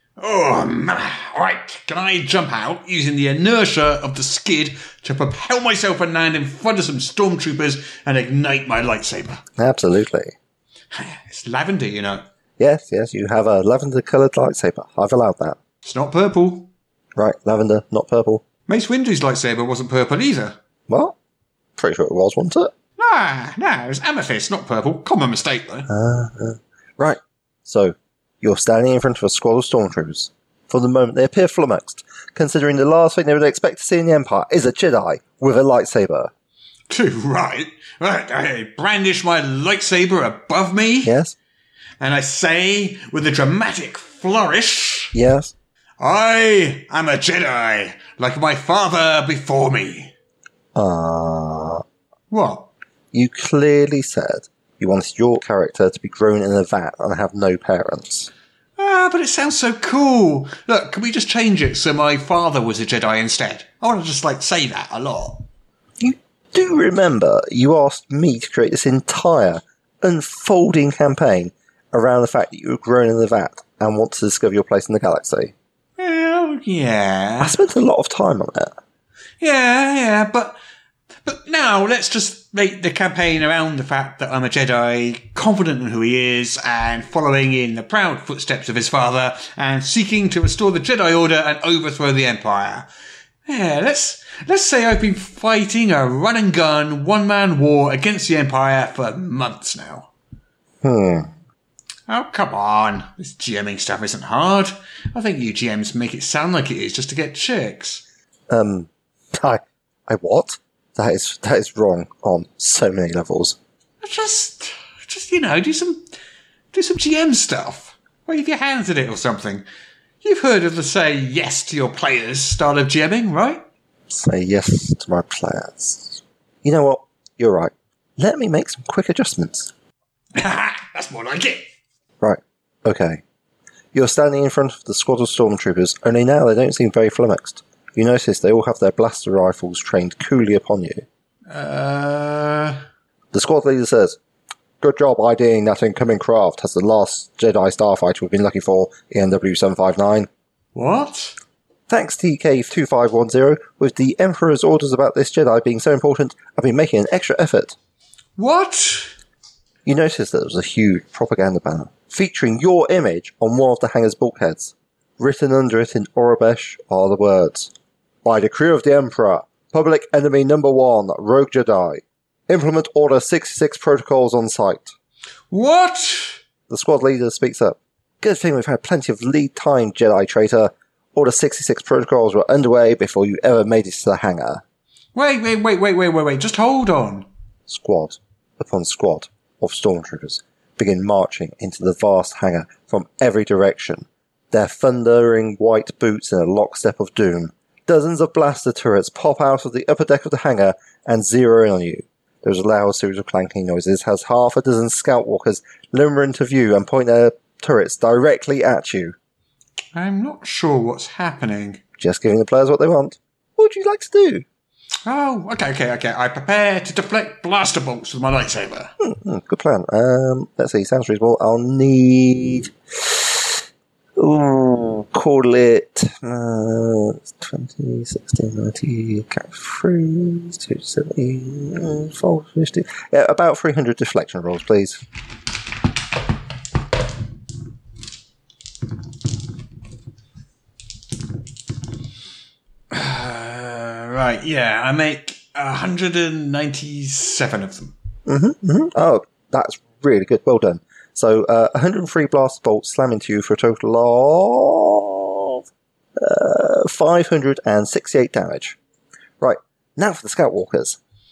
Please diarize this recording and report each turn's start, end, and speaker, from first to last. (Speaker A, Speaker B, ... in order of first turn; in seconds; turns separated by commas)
Speaker A: 0.2-9.4, Speaker B: 9.6-10.3, Speaker A: 10.9-12.2, Speaker B: 12.6-15.6, Speaker A: 15.8-16.7, Speaker B: 17.2-18.4, Speaker A: 18.7-20.6, Speaker B: 20.9-21.2, Speaker B: 21.8-22.7, Speaker A: 23.0-25.9, Speaker B: 25.9-36.3, Speaker A: 36.9-41.1, Speaker B: 41.0-41.4, Speaker A: 42.0-45.1, Speaker B: 45.1-45.5, Speaker A: 46.0-50.1, Speaker B: 50.8-51.8, Speaker A: 52.3-52.7, Speaker B: 53.1-58.3, Speaker A: 58.8-65.5, Speaker B: 66.0-75.5, Speaker A: 76.0-77.6, Speaker B: 77.4-78.8, Speaker A: 79.4-80.6, Speaker A: 81.2-92.9, Speaker A: 93.5-100.1, Speaker B: 100.8-101.3, Speaker A: 102.1-108.0, Speaker B: 108.5-113.6, Speaker A: 114.0-116.0, Speaker A: 116.7-119.7, Speaker A: 120.2-123.6, Speaker B: 124.1-129.7, Speaker A: 130.4-131.6, Speaker B: 132.2-133.2, Speaker B: 133.9-141.1, Speaker A: 141.5-142.8, Speaker B: 143.3-144.2, Speaker B: 144.8-150.3, Speaker A: 150.8-151.4, Speaker B: 151.9-157.8, Speaker A: 158.4-159.2, Speaker B: 159.8-167.7, Speaker B: 168.2-174.9, Speaker A: 175.5-176.4, Speaker B: 176.7-184.6, Speaker A: 185.1-187.3, Speaker B: 187.7-209.2, Speaker A: 209.9-211.8, Speaker B: 212.0-214.4, Speaker A: 215.1-218.9, Speaker B: 219.0-223.6, Speaker B: 224.2-235.0, Speaker A: 242.9-247.9, Speaker B: 248.3-255.6, Speaker B: 256.2-258.8, Speaker B: 259.4-261.0